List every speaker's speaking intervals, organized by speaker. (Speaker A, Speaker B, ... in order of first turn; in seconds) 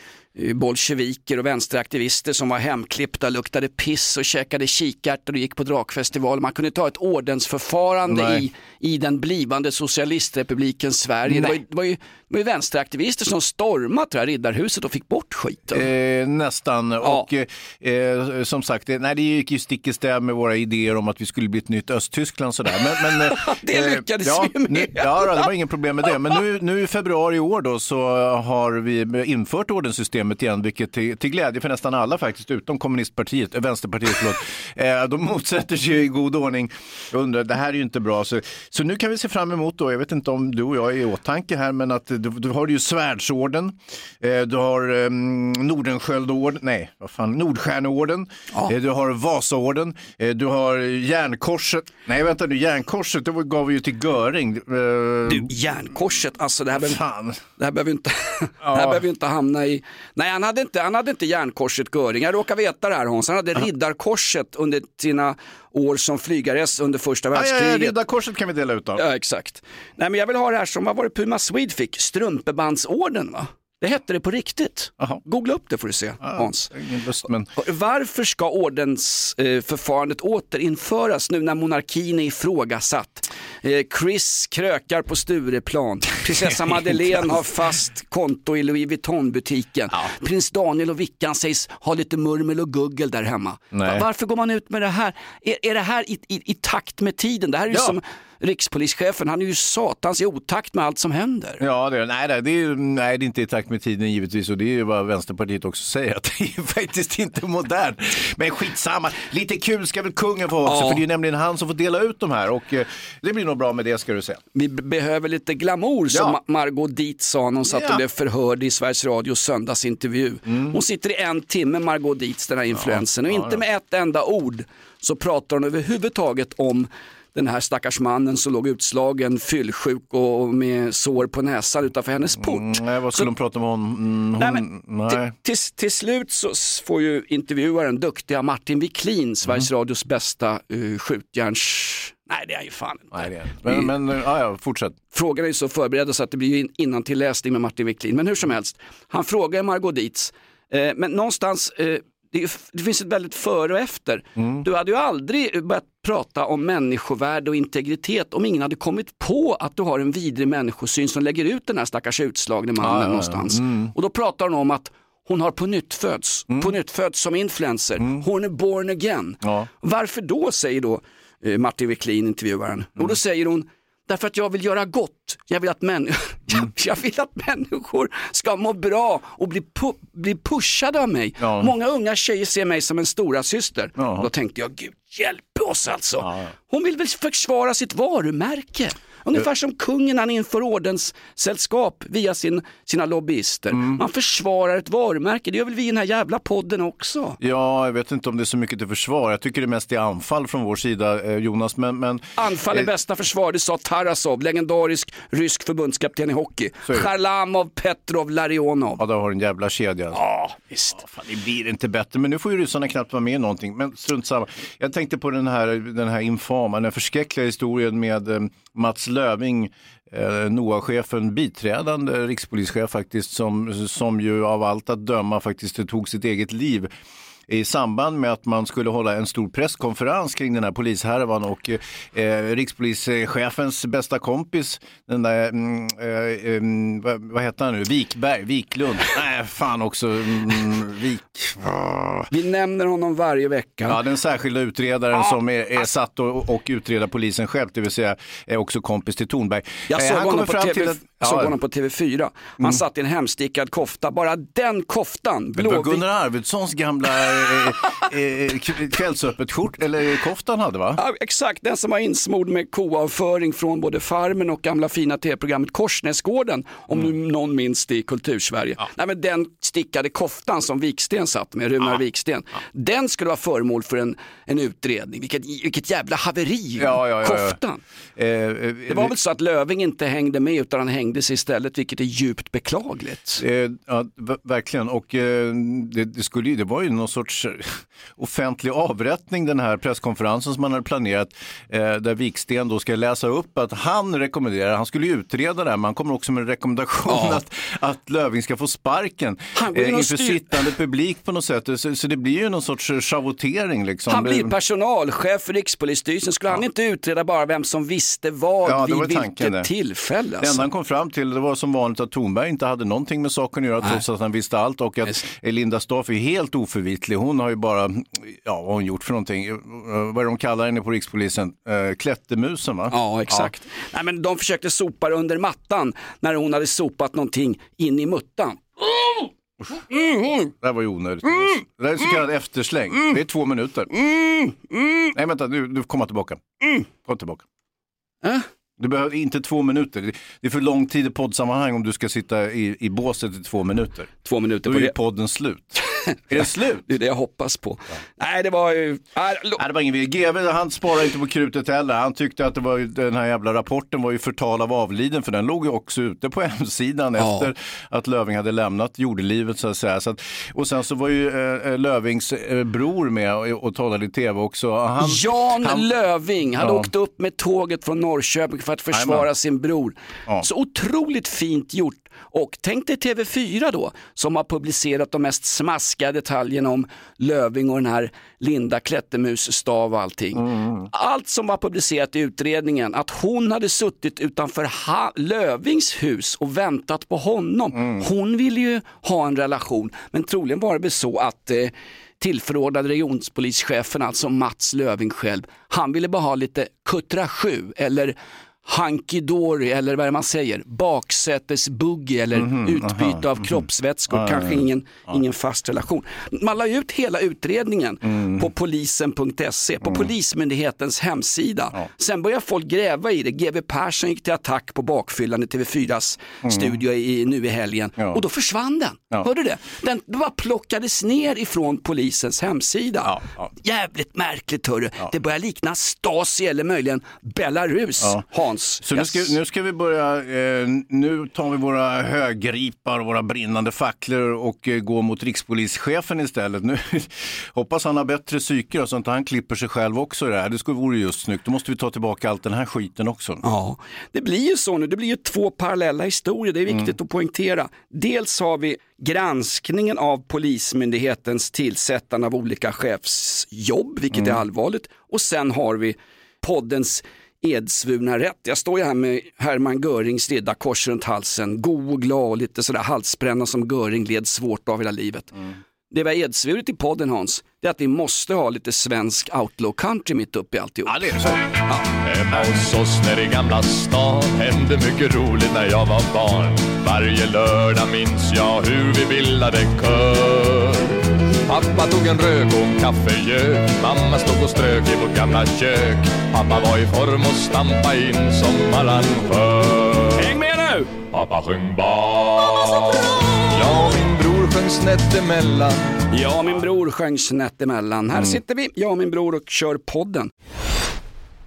Speaker A: 0.3-15.8, 17.0-17.3, 23.3-25.5, 55.3-57.0, 57.6-68.0, 69.0-76.7, 77.6-101.6, 110.6-111.0, 114.5-133.3, 134.4-143.9, 145.1-197.4, 202.4-209.0, 210.1-211.0, 242.3-244.0, 249.9-256.0, 261.0-277.8, 278.9-283.4, 297.1-297.4, 299.6-300.7, 304.1-310.6, 322.9-329.3, 330.0-330.4, 334.1-334.9, 344.2-345.0, 345.9-349.6, 357.2-357.5, 365.0-429.4, 443.4-465.3, 465.9-471.0, 490.2-490.9, 496.1-500.3
Speaker B: 8.1-8.4, 15.7-55.5, 56.8-57.4, 58.6-59.0, 67.3-69.0, 76.2-77.5, 86.3-87.4, 93.7-94.0, 97.7-98.0, 101.6-114.4, 116.1-116.4, 117.7-118.0, 120.5-120.8, 122.8-123.6, 132.4-135.3, 143.1-145.0, 154.4-154.6, 162.8-163.9, 168.0-168.2, 169.4-169.7, 181.4-181.7, 184.0-184.3, 186.2-186.5, 193.7-194.0, 197.4-202.9, 209.0-210.2, 210.9-226.9, 227.5-242.3, 243.9-251.5, 255.6-261.0, 276.8-277.6, 278.2-279.1, 283.4-304.5, 308.6-309.7, 310.4-323.5, 329.6-329.9, 330.4-333.9, 335.1-337.4, 338.8-344.1, 344.6-346.8, 349.6-365.9, 366.6-366.9, 368.9-369.3, 380.4-380.9, 387.8-388.0, 402.4-405.2, 408.0-408.5, 409.8-410.1, 416.4-416.8, 423.1-423.5, 428.8-443.4, 470.9-471.4, 472.3-472.6
Speaker C: 472.1-480.9, 481.5-490.3, 491.1-495.9